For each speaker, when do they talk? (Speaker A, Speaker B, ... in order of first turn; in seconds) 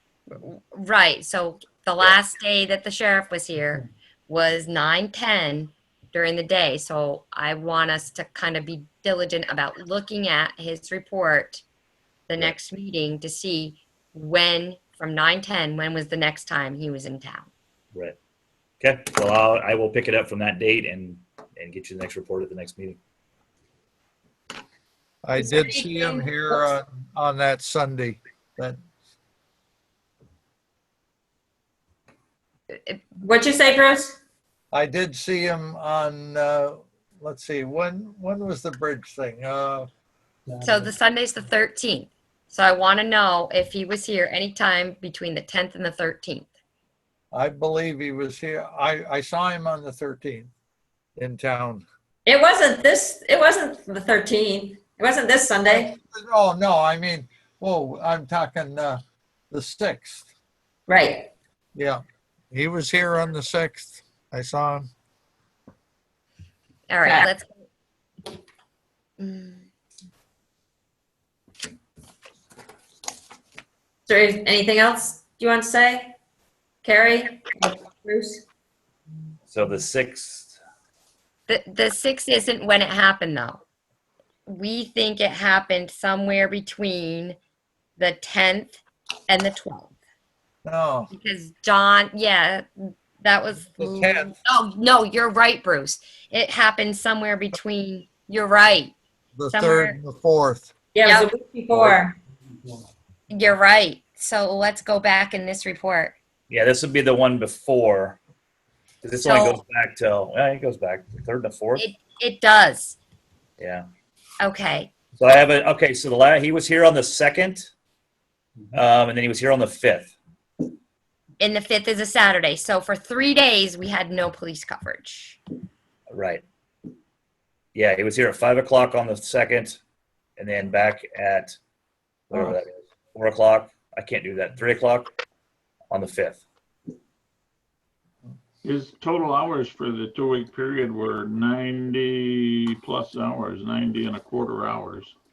Speaker A: 0.3-11.6, 12.3-17.5, 25.4-26.2, 40.6-46.5, 66.9-67.7, 69.2-69.6, 81.5-83.6, 84.5-87.4, 88.0-89.9, 91.1-98.9, 99.5-100.0, 103.3-106.1, 109.1-109.6, 111.8-113.0, 114.4-114.9, 121.4-125.4
Speaker B: 18.8-23.0, 79.5-80.5, 106.5-108.2, 109.0-111.8, 113.6-113.8, 115.2-117.7, 118.7-120.1, 126.1-126.4, 127.8-129.8, 130.4-131.6, 132.3-135.1, 135.9-136.4
Speaker C: 25.2-28.8, 34.7-39.9, 47.3-50.5, 51.2-51.8, 55.7-60.3, 61.8-62.0, 62.5-64.9, 90.6-91.1, 93.8-94.3, 99.3-100.7
Speaker D: 33.2-34.1, 52.2-56.0, 60.9-61.3, 74.1-76.1, 76.8-78.4, 100.9-102.2
Speaker E: 138.6-145.1